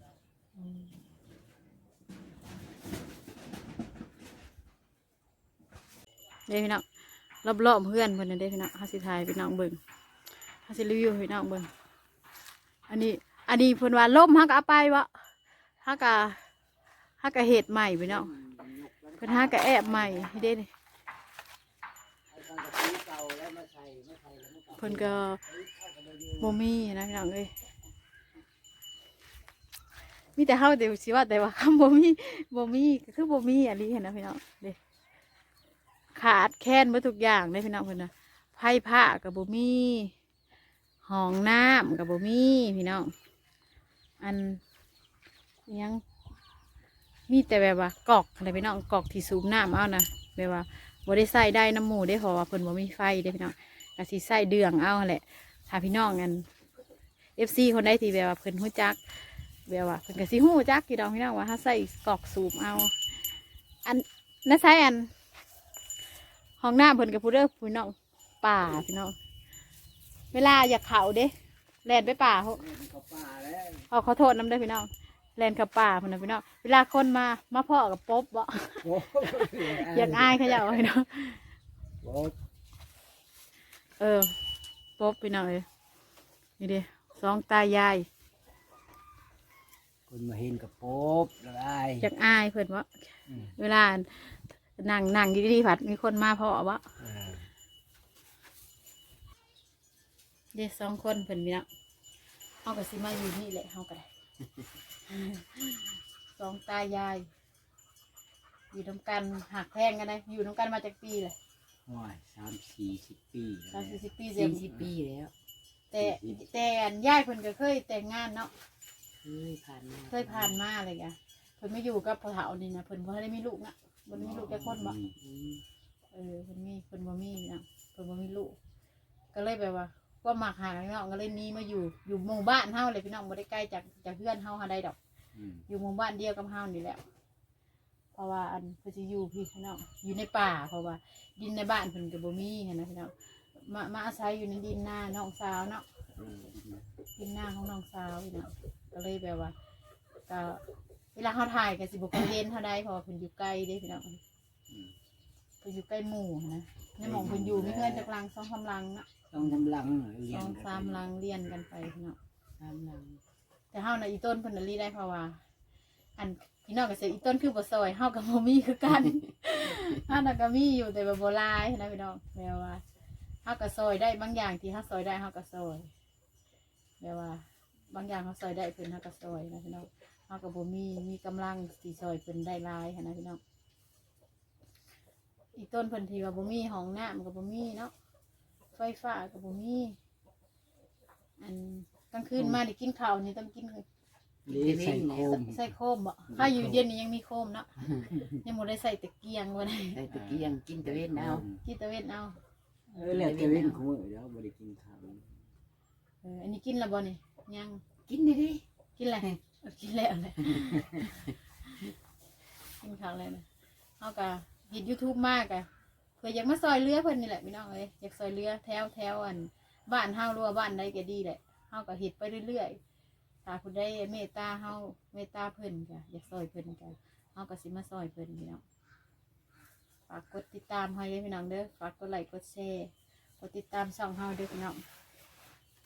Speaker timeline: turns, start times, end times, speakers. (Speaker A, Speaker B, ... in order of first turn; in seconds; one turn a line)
Speaker A: 0.6-0.9
Speaker A: 6.5-6.8
Speaker A: 7.4-9.8
Speaker A: 10.6-11.7
Speaker A: 12.9-15.2
Speaker A: 15.8-16.4
Speaker A: 17.2-18.3
Speaker B: 18.1-20.5
Speaker A: 19.2-20.7
Speaker B: 22.3-26.6
Speaker A: 24.7-25.4
Speaker A: 26.4-27.5
Speaker A: 30.4-34.8
Speaker A: 36.1-40.1
Speaker A: 41.0-43.1
Speaker A: 44.2-44.6
Speaker A: 45.7-46.0
Speaker A: 47.3-56.5
Speaker A: 57.4-63.0
Speaker A: 63.8-65.1
Speaker A: 66.6-69.1
Speaker A: 70.3-71.3
Speaker A: 71.8-72.6
Speaker B: 72.6-73.9
Speaker A: 73.9-81.4
Speaker B: 78.8-80.8
Speaker B: 82.0-82.3
Speaker A: 84.0-84.4
Speaker A: 85.0-85.6
Speaker A: 86.6-88.1
Speaker B: 90.1-92.1
Speaker A: 92.0-96.8
Speaker B: 93.3-93.5
Speaker B: 97.0-97.5
Speaker A: 100.5-101.7
Speaker A: 102.6-104.1
Speaker A: 105.0-107.3
Speaker A: 108.7-111.3
Speaker B: 111.9-114.0
Speaker A: 113.7-114.6
Speaker C: 114.3-115.3
Speaker A: 115.9-118.5
Speaker B: 116.0-116.4
Speaker C: 119.2-120.6
Speaker A: 120.1-125.0
Speaker B: 124.1-125.2
Speaker C: 125.2-125.6
Speaker A: 126.1-128.6
Speaker A: 129.3-135.0
Speaker B: 135.3-135.6
Speaker A: 135.7-137.0
Speaker A: 138.1-145.8
Speaker B: 146.2-146.8
Speaker A: 147.2-149.5
Speaker A: 150.3-150.6
Speaker A: 151.1-154.2
Speaker A: 155.6-159.1
Speaker B: 157.0-158.1
Speaker B: 159.3-161.1
Speaker A: 160.3-162.2
Speaker C: 162.6-163.2
Speaker A: 163.7-165.4
Speaker A: 166.2-172.8
Speaker A: 173.4-175.9
Speaker A: 177.0-183.4
Speaker A: 185.5-187.9
Speaker A: 188.7-190.0
Speaker A: 191.4-193.8
Speaker C: 194.4-195.4
Speaker B: 194.5-195.7
Speaker A: 195.4-200.0
Speaker B: 196.3-196.9
Speaker C: 199.9-201.4
Speaker B: 200.1-201.6
Speaker A: 201.6-202.4
Speaker B: 202.9-205.3
Speaker C: 203.0-203.8
Speaker A: 206.2-207.8
Speaker C: 208.1-208.6
Speaker A: 209.0-211.2
Speaker A: 212.8-213.4
Speaker A: 214.0-215.7
Speaker A: 216.2-222.8
Speaker A: 223.4-228.6
Speaker A: 230.1-234.8